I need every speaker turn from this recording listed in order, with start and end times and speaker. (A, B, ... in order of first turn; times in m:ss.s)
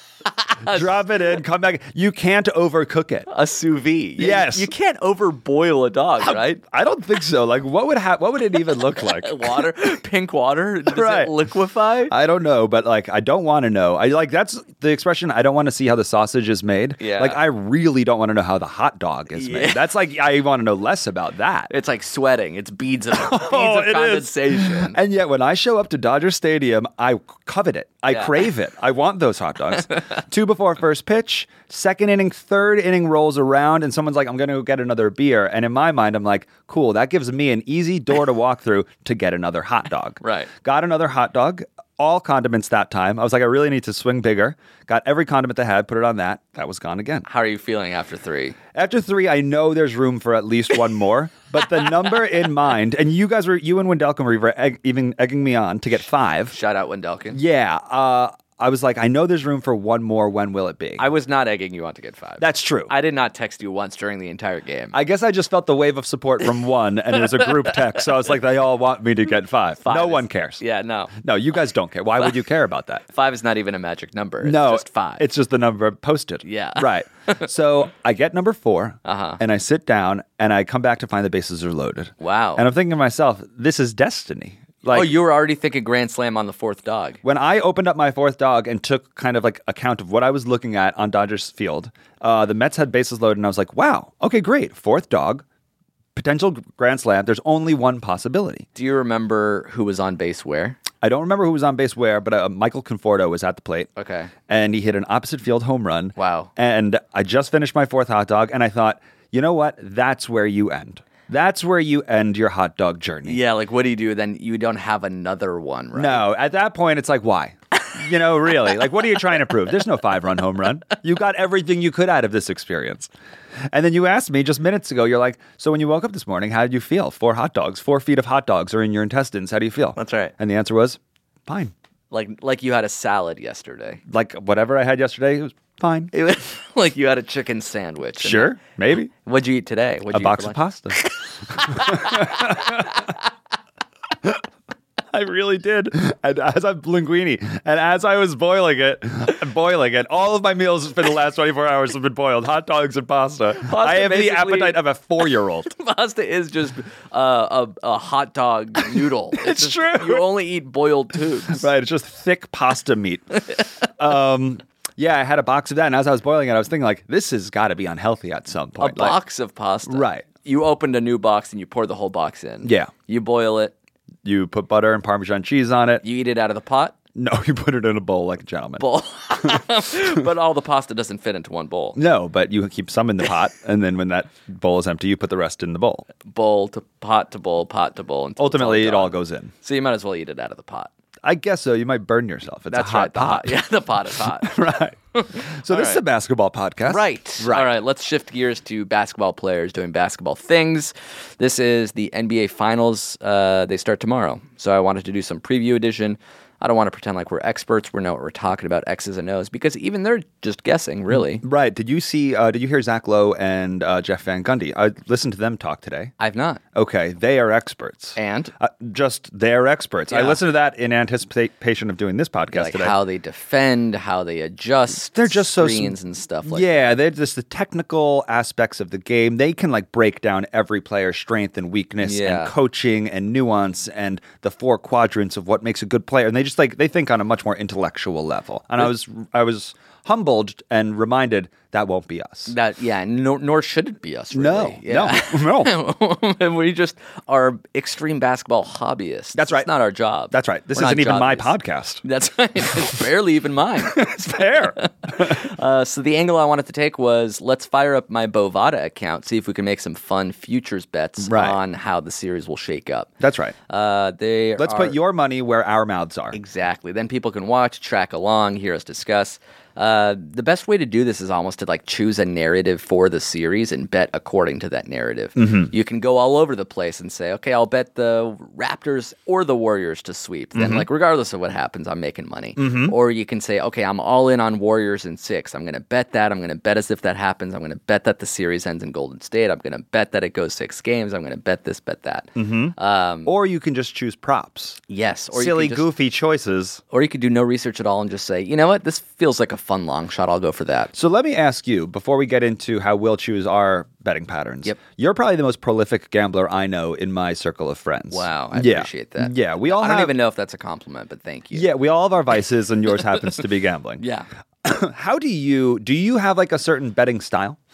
0:00.2-0:01.0 A
0:00.6-0:03.3 B
0:03.3-0:06.6 A
0:04.2-0:04.7 B
0:06.2-0:09.6 B
0:08.9-0:12.1 A
0:10.9-0:11.3 B
0:12.1-0:21.7 B
0:17.0-0:17.4 A
0:19.4-0:19.8 A
0:21.7-0:25.0 A
0:23.1-0:47.3 B
0:28.1-0:28.4 A
0:40.2-0:40.5 A
0:47.3-0:48.6 A
0:48.7-0:56.6 B
0:56.5-0:57.4 A
0:57.3-1:01.1 B
1:01.0-1:05.0 A
1:02.4-1:02.9 B
1:04.9-1:10.6 B
1:09.8-1:11.1 A
1:11.1-1:13.0 B
1:13.1-1:15.2 A
1:14.4-1:25.1 B
1:16.4-1:17.4 A
1:19.0-1:19.4 A
1:22.2-1:22.6 A
1:24.9-1:27.2 A
1:27.2-1:35.4 B
1:36.2-1:38.7 B
1:38.8-1:40.8 A
1:41.0-1:43.9 B
1:44.0-1:44.3 A
1:44.5-1:53.4 B
1:46.2-1:46.5 A
1:53.2-1:56.3 A
1:55.9-2:03.1 B
2:03.7-2:11.7 B
2:10.0-2:10.3 A
2:12.1-2:14.0 A
2:14.1-2:16.1 B
2:16.1-2:18.6 A
2:18.2-2:19.1 B
2:19.2-2:23.1 A
2:20.1-2:21.0 B
2:21.6-2:23.0 B
2:25.1-2:35.7 B
2:33.6-2:34.8 A
2:35.7-2:41.7 A
2:39.4-2:40.3 B
2:41.5-2:49.2 B
2:48.8-2:53.7 A
2:49.9-2:50.3 B
2:52.6-2:52.9 B
2:54.2-2:56.0 B
2:56.0-2:57.0 A
2:57.2-2:58.8 B
2:58.8-3:02.0 A
3:02.0-3:06.1 B
3:06.2-3:10.9 A
3:08.4-3:09.5 B
3:11.2-3:13.6 B
3:12.7-3:16.0 A
3:14.4-3:15.0 B
3:15.5-3:17.7 B
3:16.9-3:31.4 A
3:31.4-3:36.1 B
3:36.2-3:36.6 A
3:36.8-3:42.9 B
3:38.2-3:38.5 A
3:40.1-3:40.4 A
3:42.5-3:46.7 A
3:45.1-3:45.9 B
3:46.5-4:02.5 B
3:52.0-3:52.5 A
4:02.5-4:14.1 A
4:04.3-4:05.7 B
4:09.4-4:09.7 B
4:10.3-4:12.0 B
4:13.9-4:15.4 B
4:14.6-4:23.1 A
4:21.2-4:21.6 B
4:23.2-4:23.6 B
4:23.7-4:25.0 A
4:24.6-4:26.4 B
4:26.3-4:53.3 A
4:35.4-4:35.7 B
4:40.6-4:40.9 B
4:42.6-4:42.9 B
4:52.4-4:54.8 B
4:54.9-4:55.9 A
4:55.3-4:56.8 B
4:56.9-5:00.9 A
5:00.9-5:10.1 B
5:08.1-5:11.7 A
5:11.5-5:14.0 B
5:14.0-5:14.3 A
5:14.6-5:17.6 B